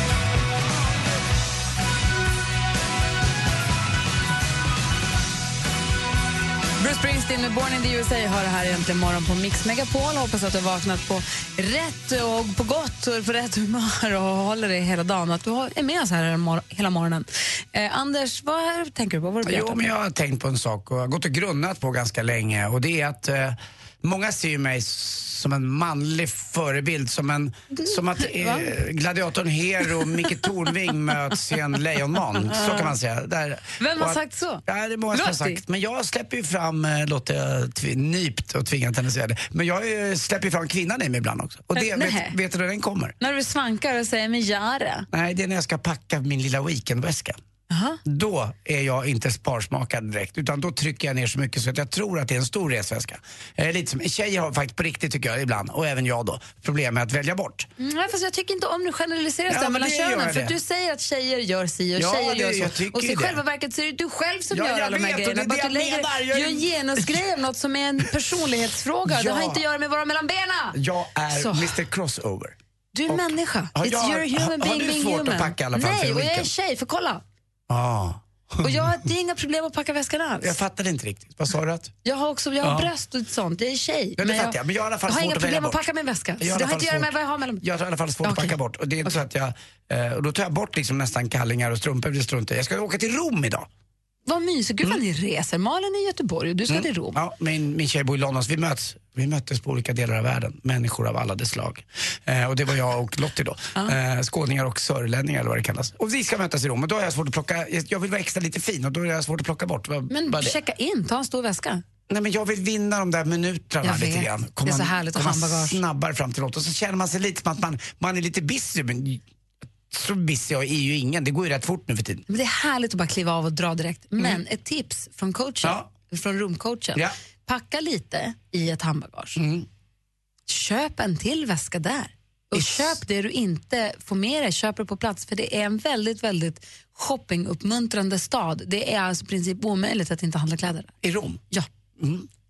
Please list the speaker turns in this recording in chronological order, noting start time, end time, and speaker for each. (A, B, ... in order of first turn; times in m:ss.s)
0:06.8-0:19.9 A
0:19.4-0:43.1 B
0:27.7-0:28.7 A
0:32.5-0:32.9 A
0:33.8-0:35.6 A
0:41.8-0:42.4 A
0:43.2-0:45.1 A
0:45.1-0:47.4 B
0:47.7-0:48.0 A
0:48.0-0:57.7 B
0:57.8-1:10.8 A
0:59.5-1:00.6 B
1:02.0-1:03.4 B
1:04.5-1:07.2 B
1:09.1-1:09.6 B
1:10.7-1:12.6 B
1:11.3-1:11.8 A
1:12.9-1:17.2 A
1:13.1-1:16.5 B
1:17.7-1:18.9 B
1:18.6-1:20.6 A
1:20.4-1:21.9 B
1:22.0-1:27.6 A
1:22.6-1:22.9 B
1:24.2-1:25.8 B
1:26.4-1:33.7 B
1:28.2-1:28.6 A
1:34.2-1:37.2 A
1:36.7-1:50.6 B
1:50.1-1:51.8 A
1:52.1-1:59.2 B
1:53.8-1:55.8 A
1:59.9-2:02.2 B
2:02.3-2:09.4 A
2:05.6-2:05.9 B
2:09.4-2:09.7 B
2:10.5-2:20.9 A
2:12.5-2:13.0 B
2:21.0-2:21.4 B
2:22.0-2:22.3 B